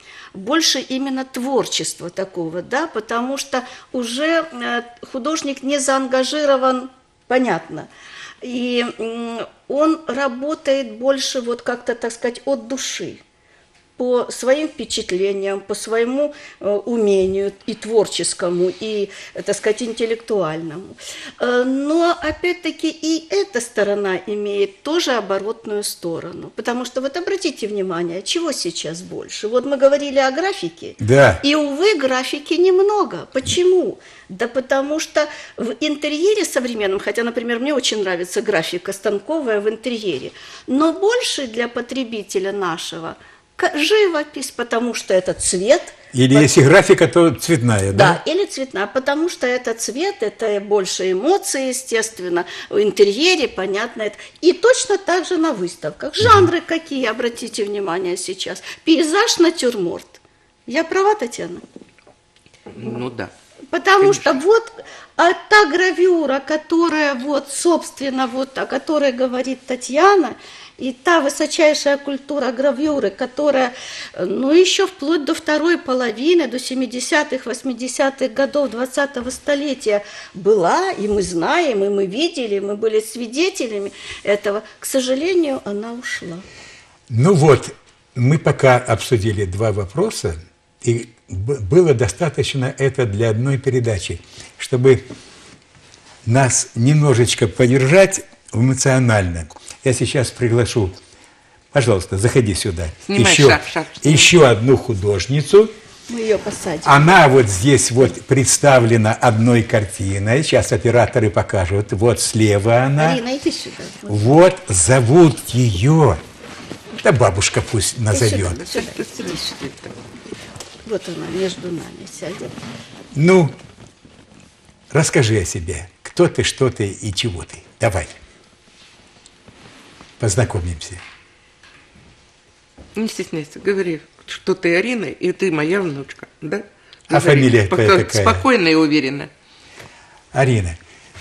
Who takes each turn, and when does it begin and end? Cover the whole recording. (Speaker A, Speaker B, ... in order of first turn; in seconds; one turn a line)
Speaker A: 0.3-7.9
Speaker A: 8.4-13.2
Speaker A: 14.0-46.5
Speaker B: 31.0-31.4
Speaker B: 46.1-48.2
Speaker A: 47.9-61.6
Speaker B: 56.2-56.5
Speaker C: 62.7-63.3
Speaker A: 63.7-86.5
Speaker C: 64.0-64.4
Speaker B: 87.1-95.1
Speaker B: 96.2-101.0
Speaker B: 101.7-105.7
Speaker C: 103.0-104.3
Speaker A: 106.1-107.2
Speaker B: 106.8-113.2
Speaker A: 113.0-114.2
Speaker B: 114.1-116.2
Speaker B: 117.0-118.6
Speaker A: 118.1-119.5
Speaker C: 118.3-119.9
Speaker A: 120.9-122.6
Speaker B: 123.1-123.5
Speaker B: 124.9-128.2
Speaker B: 130.2-131.0
Speaker C: 132.9-139.3
Speaker B: 137.1-138.4
Speaker B: 140.3-140.8